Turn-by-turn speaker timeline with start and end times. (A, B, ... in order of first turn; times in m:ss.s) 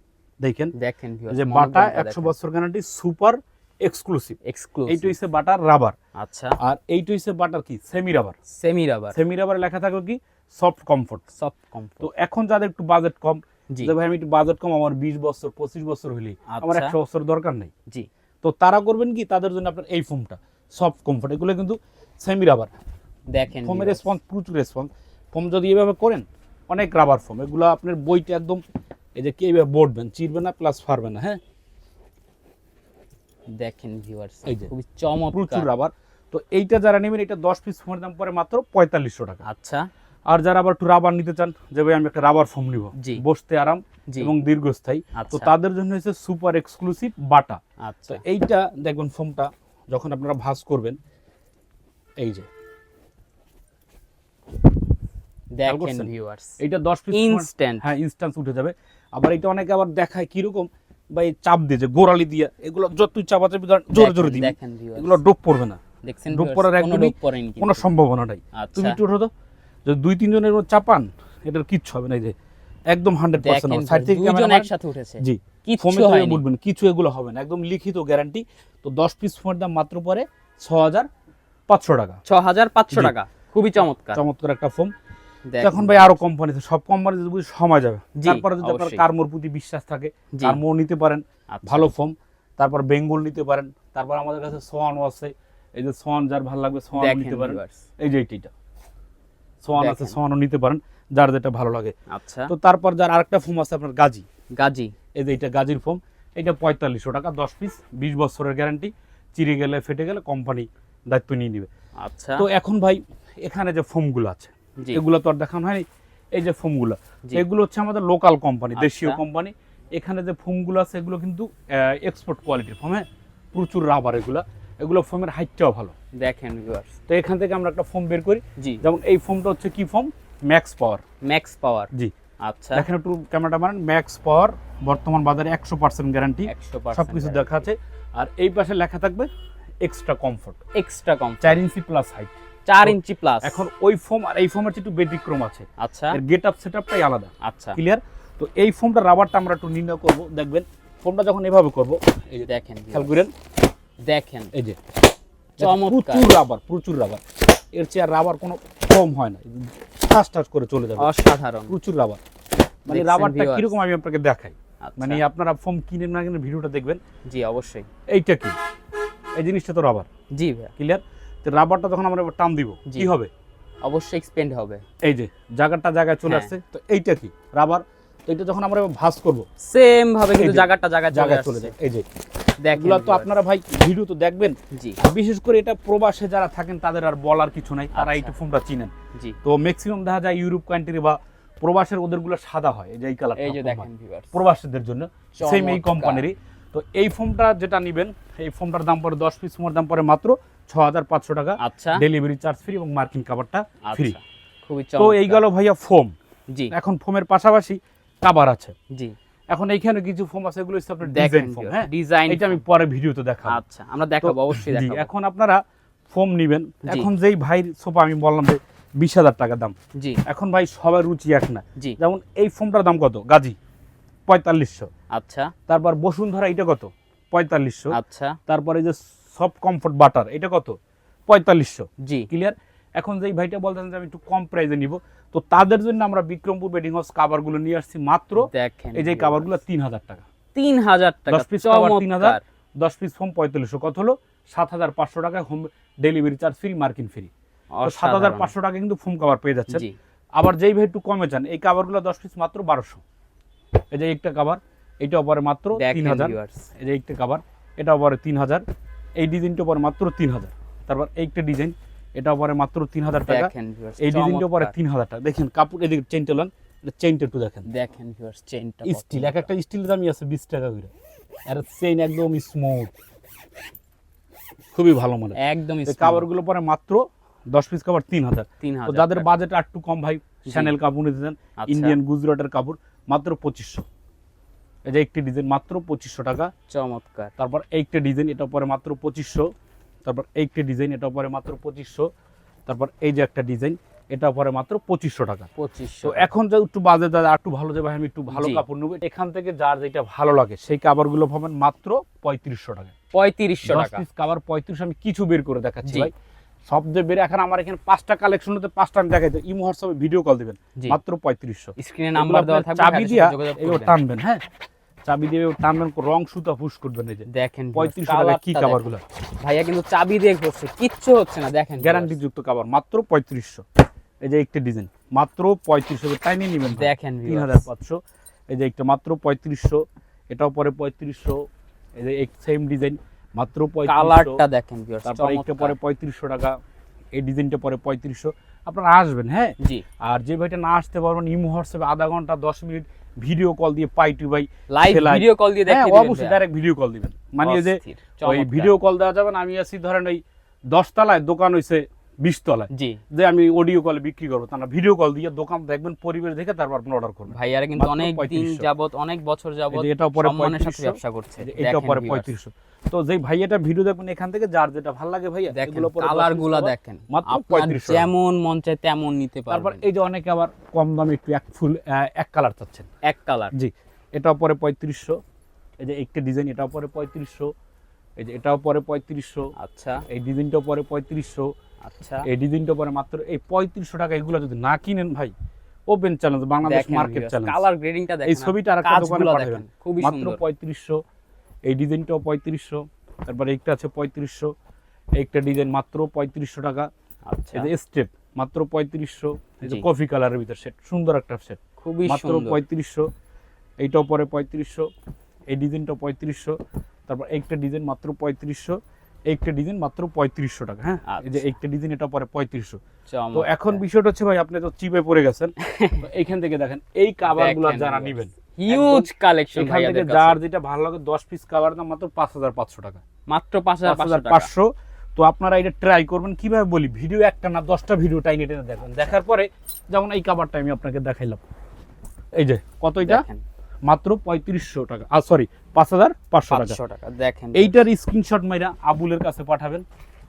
0:00.4-0:00.7 A
0:00.8-0:02.3 B
0:01.3-0:06.0 A
0:04.4-0:05.1 B
0:06.2-0:06.6 B
0:06.6-0:08.4 A
0:08.5-0:09.2 B
0:09.1-0:11.2 A
0:11.4-0:12.1 B
0:12.0-0:17.7 A
0:16.5-0:16.9 B
0:18.4-0:22.7 A
0:23.3-0:24.1 B
0:23.6-0:28.6 A
0:29.2-0:31.4 A
0:33.5-0:35.7 B
0:35.3-0:39.5 A
0:39.4-0:39.9 B
0:40.3-0:51.0 A
0:43.0-0:43.2 B
0:45.2-0:45.5 B
0:47.8-0:48.2 B
0:52.2-0:52.5 A
0:55.5-0:56.6 B
0:55.6-1:09.3 A
0:57.1-0:57.9 B
1:03.9-1:05.2 B
1:06.0-1:07.9 B
1:08.5-1:09.0 B
1:09.9-1:12.4 A
1:12.9-1:14.7 A
1:13.4-1:16.4 B
1:15.2-1:21.1 A
1:21.7-1:22.2 A
1:22.2-1:24.2 B
1:24.2-1:24.9 A
1:25.5-1:26.2 B
1:25.6-1:38.5 A
1:28.2-1:29.0 B
1:31.5-1:31.9 B
1:37.0-1:37.8 B
1:39.6-1:42.0 A
1:39.8-1:40.2 B
1:42.1-1:42.5 B
1:42.5-1:44.3 A
1:44.6-1:44.9 B
1:45.2-1:51.7 A
1:52.0-1:52.5 B
1:52.4-2:05.9 A
1:58.8-1:59.2 B
2:06.2-2:07.0 B
2:07.1-2:11.0 A
2:08.6-2:08.8 B
2:11.2-2:11.9 B
2:12.4-2:12.8 B
2:12.7-2:19.3 A
2:16.5-2:17.7 B
2:19.8-2:20.6 A
2:20.7-2:21.6 B
2:21.4-2:33.3 A
2:22.7-2:23.6 B
2:25.8-2:26.2 B
2:27.4-2:27.8 B
2:32.4-2:33.2 B
2:34.0-2:34.5 B
2:35.6-2:37.2 A
2:35.6-2:36.3 B
2:37.7-2:41.2 A
2:41.0-2:41.8 B
2:41.7-2:42.2 A
2:42.9-2:47.0 A
2:42.9-2:43.8 B
2:44.8-2:45.2 B
2:47.3-2:47.9 B
2:48.1-2:48.6 A
2:49.4-2:50.1 A
2:50.3-2:50.7 B
2:50.8-2:53.3 A
2:53.8-2:54.8 B
2:55.0-2:59.5 A
2:56.2-2:56.5 B
2:59.6-3:01.8 B
3:00.4-3:02.1 A
3:02.6-3:03.3 B
3:02.7-3:24.2 A
3:04.7-3:05.0 B
3:07.9-3:08.4 B
3:13.4-3:14.4 B
3:15.4-3:16.3 B
3:21.6-3:22.0 B
3:23.8-3:25.4 B
3:25.0-3:26.2 A
3:26.7-3:28.8 A
3:28.9-3:29.2 B
3:29.5-3:33.6 A
3:31.0-3:32.6 B
3:33.5-3:35.1 B
3:34.2-3:39.8 A
3:36.8-3:37.1 B
3:40.0-3:40.2 B
3:40.3-3:43.6 A
3:44.3-3:44.9 A
3:45.1-3:45.5 B
3:45.7-4:00.3 A
3:47.9-3:48.4 B
3:52.0-3:52.3 B
3:58.4-3:59.5 B
4:00.6-4:02.4 B
4:01.3-4:07.3 A
4:07.7-4:08.5 B
4:07.8-4:13.0 A
4:09.7-4:10.0 B
4:13.9-4:18.6 A
4:15.8-4:16.7 B
4:19.2-4:27.7 A
4:23.2-4:24.8 B
4:27.7-4:29.5 B
4:28.9-4:30.9 A
4:31.5-4:32.9 A
4:34.7-4:43.8 A
4:35.4-4:36.3 B
4:38.6-4:39.3 B
4:40.5-4:40.7 B
4:41.6-4:42.0 B
4:44.9-4:46.5 A
4:46.7-4:47.3 B
4:47.4-4:49.5 A
4:50.0-4:52.1 A
4:52.7-4:55.5 A
4:55.6-4:56.3 B
4:56.0-5:02.9 A
4:58.3-4:58.6 B
5:03.1-5:04.0 B
5:03.6-5:06.1 A
5:05.8-5:06.1 B
5:06.7-5:14.4 A
5:11.8-5:14.0 B
5:15.1-5:19.0 A
5:17.3-5:22.2 B
5:21.8-5:23.6 A
5:24.2-5:28.0 A
5:26.7-5:27.7 B
5:28.5-5:31.4 A
5:32.0-5:34.4 A
5:33.9-5:35.8 B
5:35.0-5:36.6 A
5:37.1-5:58.7 A
5:39.6-5:39.8 B
5:44.7-5:46.4 B
5:47.4-5:48.8 B
5:52.7-5:53.0 B
5:57.3-6:02.3 B
5:59.7-6:08.1 A
6:05.5-6:09.8 B
6:09.5-6:12.9 A
6:13.0-6:13.5 B
6:13.5-6:15.2 A
6:15.8-6:17.5 A
6:18.2-6:19.5 A
6:19.6-6:20.0 B
6:20.1-6:21.5 A
6:21.8-6:22.3 B
6:22.2-6:25.3 A
6:25.9-6:27.6 A
6:26.6-6:30.4 B
6:28.3-6:31.0 A
6:31.7-6:34.5 A
6:35.2-6:36.9 A
6:37.3-6:37.7 B
6:37.5-6:43.1 A
6:41.8-6:42.6 B
6:43.8-6:44.9 A
6:45.5-6:52.8 A
6:51.1-6:51.4 B
6:53.1-6:53.8 B
6:53.3-7:03.0 A
6:55.6-6:56.0 B
6:57.3-7:00.4 B
7:03.3-7:04.5 B
7:03.8-7:11.4 A
7:12.4-7:13.2 A
7:13.0-7:13.4 B
7:13.9-7:16.8 A
7:16.5-7:17.8 B
7:17.5-7:19.8 A